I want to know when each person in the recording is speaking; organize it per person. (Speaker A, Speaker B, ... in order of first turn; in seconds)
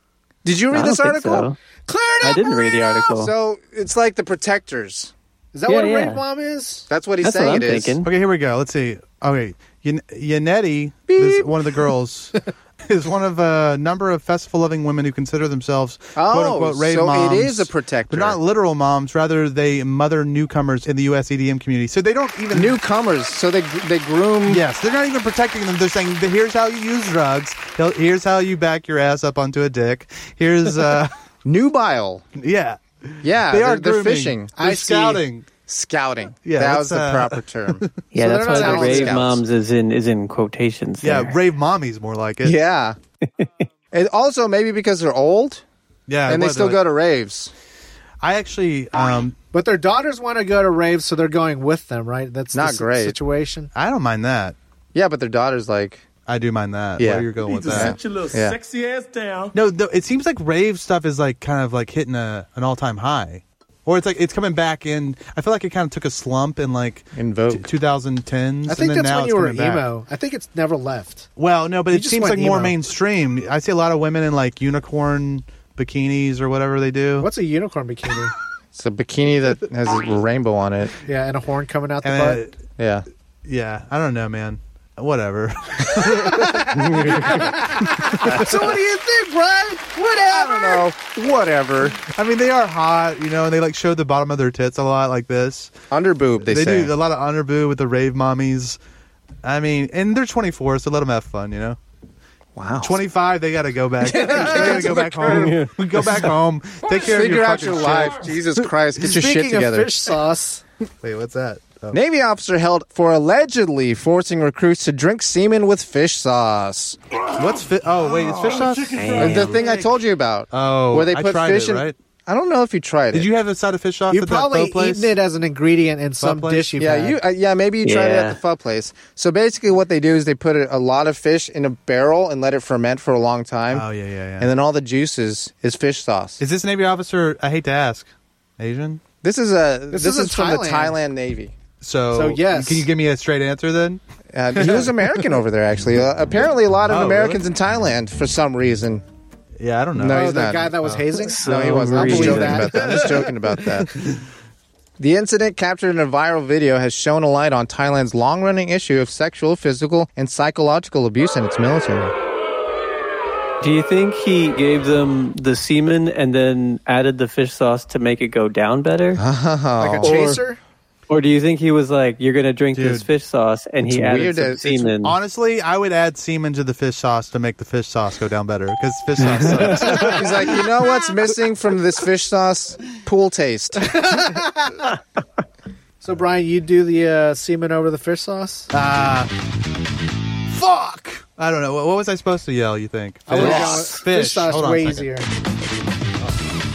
Speaker A: 0.4-1.5, 3.0-5.1, 6.9-8.0, 11.1-11.5, 16.1-18.4, 22.5-24.6, 31.4-32.3, 33.2-34.6, 35.6-37.8, 38.5-39.4, 42.4-43.0, 43.9-45.6, 46.2-47.5, 52.5-53.1, 54.9-56.0, 57.0-58.6, 67.1-67.7, 78.7-81.0, 82.8-83.0, 90.2-92.0, 95.9-96.9, 102.5-103.0, 104.1-105.5, 107.0-109.9, 111.9-117.0, 119.2-123.3, 126.8-133.9, 134.4-136.4, 139.2-141.5, 144.3-149.0, 149.9-150.7, 151.4-153.9, 155.0-162.1, 169.2-170.4, 173.9-174.9, 179.9-184.1, 193.4-193.9
Speaker B: 0.7-1.6, 2.2-3.3, 5.7-6.2, 7.2-8.1, 38.1-41.4, 105.3-105.7, 118.9-119.7, 127.8-128.4, 151.2-152.7, 163.6-169.2, 171.1-175.2, 179.2-180.1
Speaker C: 1.9-3.0, 5.5-6.9, 34.6-35.2, 38.1-39.2, 49.5-53.7, 68.7-71.3, 71.9-72.8, 77.2-78.3, 81.0-82.5, 86.1-90.9, 104.2-105.1, 109.0-110.6, 124.1-127.2, 139.9-141.0, 142.1-142.9, 150.1-153.3, 169.8-170.6, 183.8-184.9, 186.0-188.7, 193.3-195.3
Speaker D: 8.0-22.8, 24.4-31.1, 32.4-35.5, 36.4-37.9, 41.0-42.6, 46.1-46.8, 48.2-49.4, 53.7-54.5, 56.2-58.0, 59.5-69.9, 71.4-77.3, 82.0-82.6, 83.4-88.5, 92.0-95.7, 96.4-98.8, 99.4-101.8, 102.8-108.7, 111.0-112.0, 117.3-119.4, 120.5-122.0, 123.1-125.1, 126.2-126.7, 133.7-134.5, 136.4-139.0, 141.8-144.0, 146.9-147.5, 149.6-151.2, 152.2-154.2, 172.7-173.1, 175.0-180.5, 188.7-189.3, 190.5-195.2, 196.2-196.6
Speaker E: 57.4-59.5